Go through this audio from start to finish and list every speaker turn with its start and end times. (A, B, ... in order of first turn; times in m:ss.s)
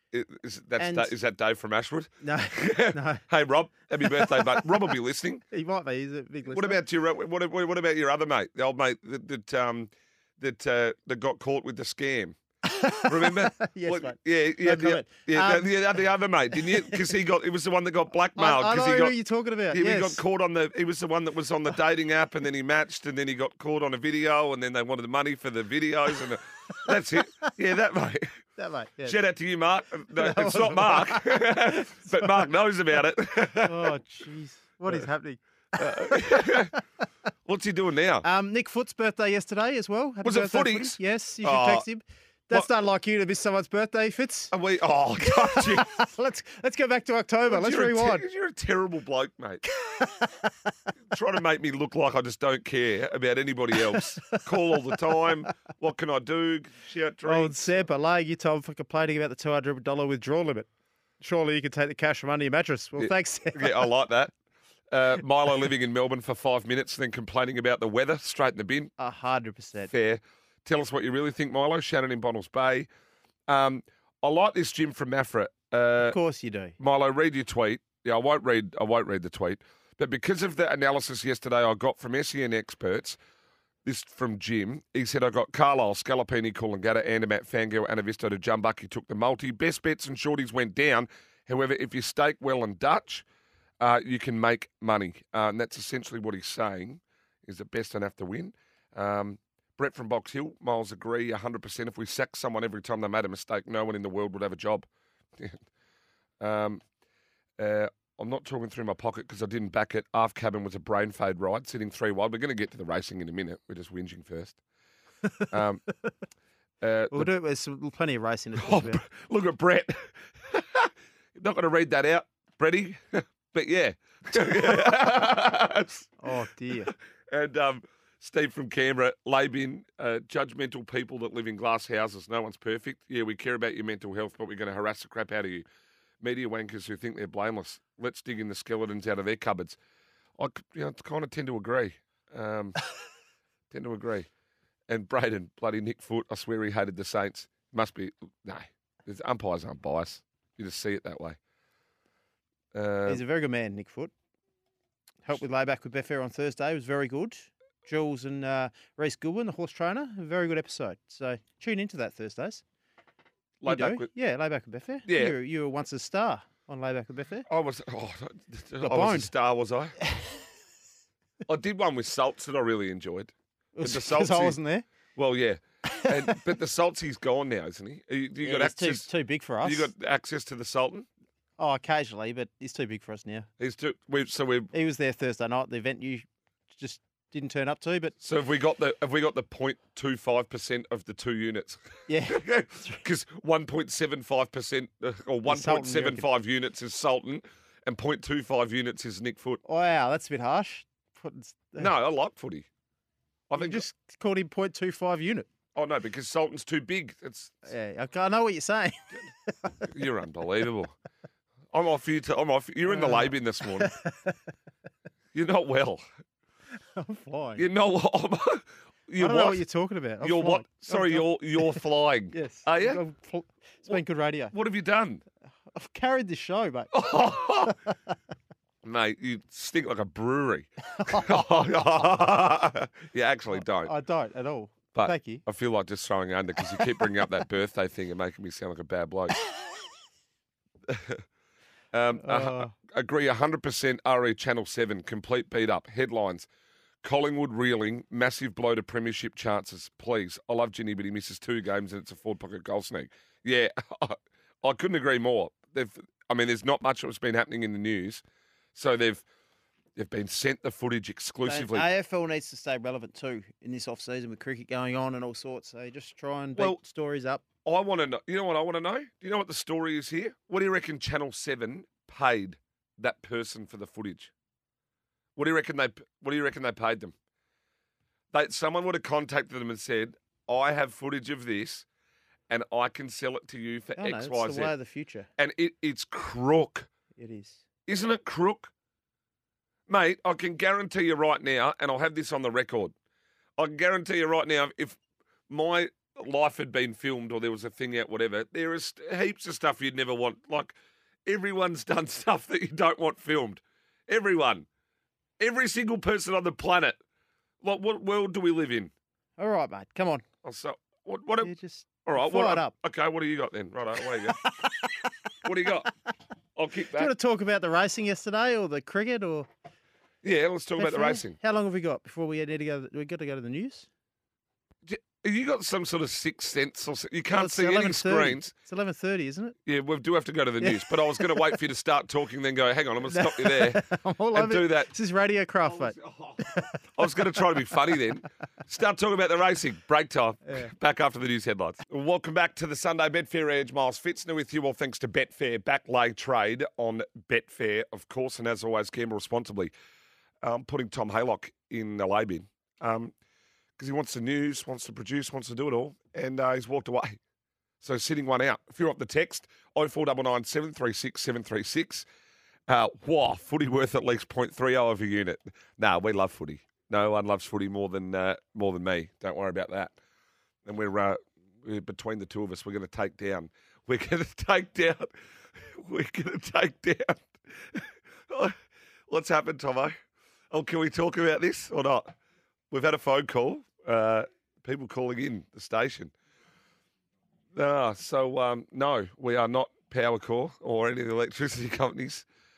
0:00.1-0:05.4 A
0:00.8-0:01.1 B
0:02.2-0:03.2 B
0:04.0-0:04.6 B
0:05.5-0:06.8 B
0:06.5-0:12.4 A
0:12.6-0:15.9 B
0:13.0-0:19.2 A
0:16.6-0:17.0 B
0:18.4-0:20.2 B
0:19.7-0:28.4 A
0:28.6-0:29.2 B
0:29.0-0:33.9 A
0:30.1-0:32.4 B
0:33.6-0:36.8 B
0:35.8-0:36.7 A
0:37.5-0:38.3 A
0:38.2-0:44.5 B
0:40.2-0:41.9 A
0:44.5-0:45.9 A
0:45.2-0:48.2 B
0:47.5-0:49.6 A
0:49.7-0:50.7 B
0:51.1-0:57.8 A
0:53.9-0:55.5 B
0:57.2-1:00.7 B
1:01.2-1:03.9 B
1:03.0-1:04.3 A
1:04.9-1:08.9 A
1:09.0-1:09.9 B
1:09.9-1:12.9 A
1:13.5-1:16.2 A
1:16.0-1:16.8 B
1:16.8-1:23.2 A
1:23.8-1:33.2 A
1:33.8-1:45.6 A
1:46.4-1:46.8 A
1:47.6-1:54.6 A
1:55.5-1:55.8 A
1:56.8-1:57.3 A
1:57.1-1:59.0 B
1:58.6-2:06.3 A
2:06.2-2:06.9 B
2:06.8-2:15.6 A
2:16.2-2:19.8 A
2:20.4-2:22.8 A
2:23.7-2:24.3 A
2:24.9-2:31.4 A
2:32.7-2:33.2 A
2:33.1-2:34.1 B
2:35.3-2:42.6 B
2:43.6-2:44.1 A
2:43.6-2:47.5 B
2:45.1-2:45.4 A
2:47.5-2:50.0 A
2:48.8-2:49.3 B
2:50.1-2:50.4 B
2:51.5-2:54.6 A
2:53.8-2:54.9 B
2:55.2-2:59.1 A
2:55.9-2:56.4 B
2:58.4-2:59.9 B
2:59.6-3:01.1 A
3:01.6-3:03.5 B
3:03.6-3:04.7 A
3:04.7-3:08.2 B
3:08.2-3:19.6 A
3:12.1-3:13.0 B
3:15.5-3:16.3 B
3:19.6-3:21.9 B
3:21.8-3:22.7 A
3:23.5-3:23.8 A
3:23.5-3:25.5 B
3:25.8-3:27.7 A
3:27.6-3:29.9 B
3:29.9-3:30.9 A
3:31.7-3:33.9 A
3:32.9-3:34.4 B
3:35.3-3:36.0 A
3:37.0-3:37.6 B
3:37.6-3:39.6 A
3:39.2-3:44.5 B
3:40.2-3:43.0 A
3:44.5-3:45.2 A
3:45.7-3:47.1 B
3:46.9-3:47.8 A
3:47.6-3:48.0 B
3:48.8-3:53.9 A
3:50.9-3:51.5 B
3:53.6-3:55.4 B
3:54.9-3:59.4 A
4:00.9-4:01.2 A
4:01.9-4:06.5 A
4:02.2-4:02.7 B
4:07.0-4:18.2 A
4:18.8-4:19.2 A
4:20.0-4:21.9 A
4:21.5-4:27.4 B
4:27.6-4:34.3 A
4:35.4-4:37.1 A
4:38.3-4:41.9 A
4:42.5-4:44.7 A
4:44.0-4:45.3 B
4:45.4-4:46.9 A
4:47.2-4:47.6 B
4:47.9-4:48.7 A
4:49.9-4:52.9 A
4:53.6-5:04.7 A
5:05.4-5:07.0 A
5:07.6-5:08.9 A
5:09.4-5:10.2 B
5:10.4-5:11.5 A
5:11.4-5:12.7 B
5:12.0-5:14.5 A
5:14.2-5:15.1 B
5:15.4-5:15.9 A
5:16.6-5:17.1 A
5:16.9-5:19.5 B
5:20.2-5:21.4 A
5:20.8-5:23.9 B
5:24.9-5:28.5 A
5:27.3-5:29.6 B
5:29.7-5:33.8 A
5:30.6-5:31.6 B
5:33.0-5:37.4 B
5:34.3-5:34.9 A
5:35.6-5:49.7 A
5:50.4-5:53.1 A
5:53.8-5:57.2 A
5:57.8-6:02.1 A
6:02.7-6:10.0 A
6:10.6-6:18.6 A
6:19.1-6:20.0 A
6:20.5-6:22.2 A
6:22.7-6:26.1 A
6:27.5-6:32.3 A